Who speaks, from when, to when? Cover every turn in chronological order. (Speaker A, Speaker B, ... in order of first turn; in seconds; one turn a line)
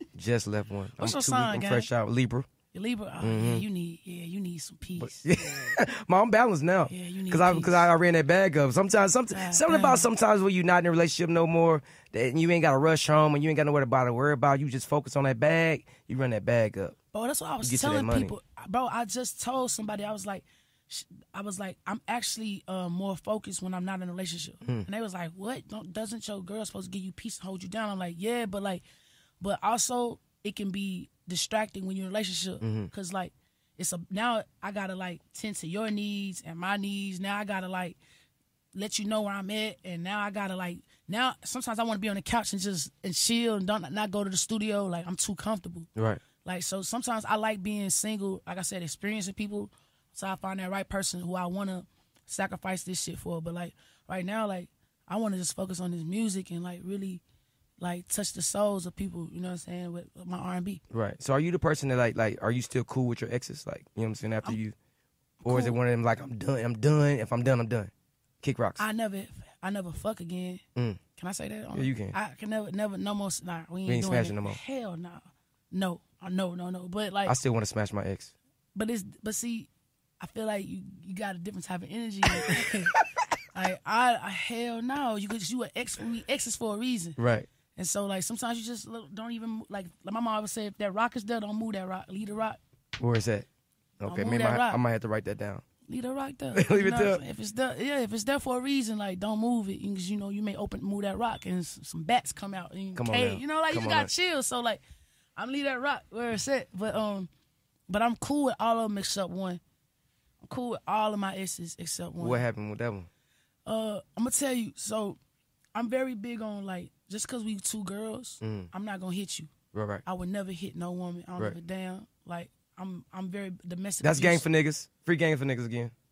Speaker A: 0.1-2.5
Speaker B: 1.0-1.9
Speaker B: 2.7-5.6
Speaker A: 3.2-3.6
Speaker A: 5.0-17.0
Speaker B: 6.9-7.9
Speaker B: 9.3-10.1
Speaker B: 17.1-28.8
Speaker A: 17.6-18.4
Speaker B: 29.4-38.0
Speaker A: 32.6-32.9
Speaker B: 38.7-45.9
Speaker A: 46.0-46.2
Speaker B: 46.4-57.2
Speaker B: 57.8-60.8
Speaker A: 60.9-64.8
Speaker B: 65.4-65.8
Speaker A: 65.5-67.9
Speaker A: 68.4-68.8
Speaker B: 68.8-70.6
Speaker B: 71.2-77.4
Speaker A: 71.7-72.2
Speaker A: 73.9-74.6
Speaker A: 77.3-78.3
Speaker B: 78.8-82.9
Speaker B: 83.5-87.2
Speaker A: 87.2-87.5
Speaker B: 87.8-92.6
Speaker A: 93.0-93.5
Speaker A: 94.0-95.6
Speaker B: 94.0-94.8
Speaker B: 95.9-104.8
Speaker A: 96.5-97.2
Speaker A: 103.0-104.1
Speaker B: 105.4-107.3
Speaker B: 107.9-109.6
Speaker B: 110.4-112.4
Speaker A: 112.2-113.1
Speaker B: 113.7-115.2
Speaker B: 115.8-119.5
Speaker A: 118.4-118.7
Speaker A: 119.7-120.0
Speaker B: 120.0-124.5
Speaker A: 124.0-125.9